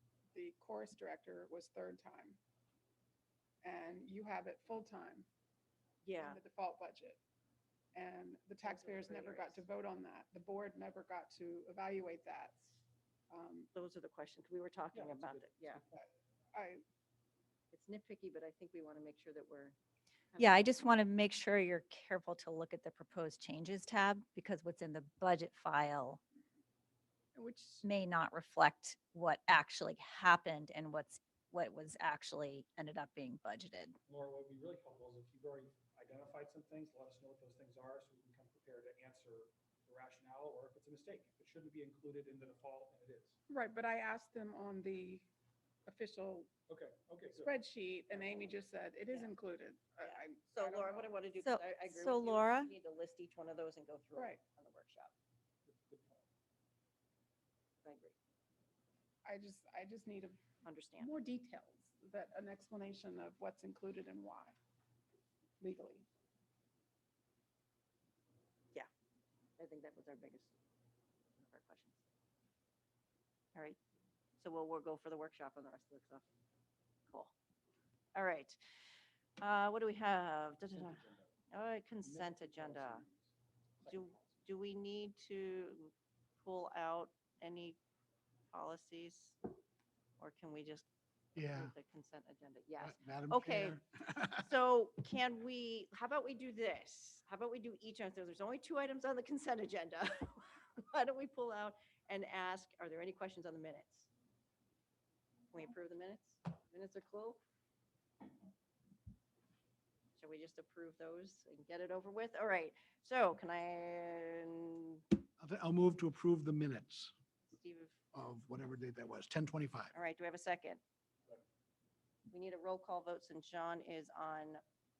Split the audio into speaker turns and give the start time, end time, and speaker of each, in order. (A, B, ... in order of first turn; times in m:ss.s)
0:00.3-0:02.4 A
0:03.6-0:05.3 A
0:06.0-0:06.4 B
0:06.2-0:07.2 A
0:07.9-0:12.7 A
0:08.6-0:09.6 B
0:13.3-0:13.7 A
0:13.7-0:15.8 B
0:14.9-0:16.1 C
0:16.5-0:16.8 A
0:17.7-0:19.8 B
0:20.3-0:20.6 B
0:20.4-0:26.2 D
0:27.4-0:27.8 A
0:27.8-0:34.0 D
0:34.1-0:43.4 C
0:43.5-0:45.3 A
0:45.9-0:46.5 A
0:46.7-0:47.5 C
0:47.3-0:51.1 A
0:50.0-0:55.1 B
0:51.4-0:52.7 D
0:55.7-0:56.2 C
0:57.8-0:58.2 B
0:59.2-1:00.4 A
1:00.6-1:01.1 B
1:01.0-1:04.6 A
1:05.6-1:06.1 A
1:09.6-1:10.5 B
1:11.4-1:12.0 B
1:14.4-1:16.2 B
1:18.2-1:18.6 B
1:19.4-1:23.1 B
1:20.8-1:21.3 C
1:22.0-1:23.3 C
1:23.9-1:27.8 B
1:28.5-1:29.4 B
1:30.2-1:30.9 B
1:31.4-1:31.7 E
1:31.4-1:33.8 B
1:32.9-1:33.7 E
1:34.4-1:44.1 B
1:45.5-1:47.4 B
1:50.2-1:55.0 B
1:55.4-1:57.1 E
1:57.5-1:58.0 B
1:58.1-1:59.9 E
1:59.9-2:00.8 B
2:02.3-2:04.6 B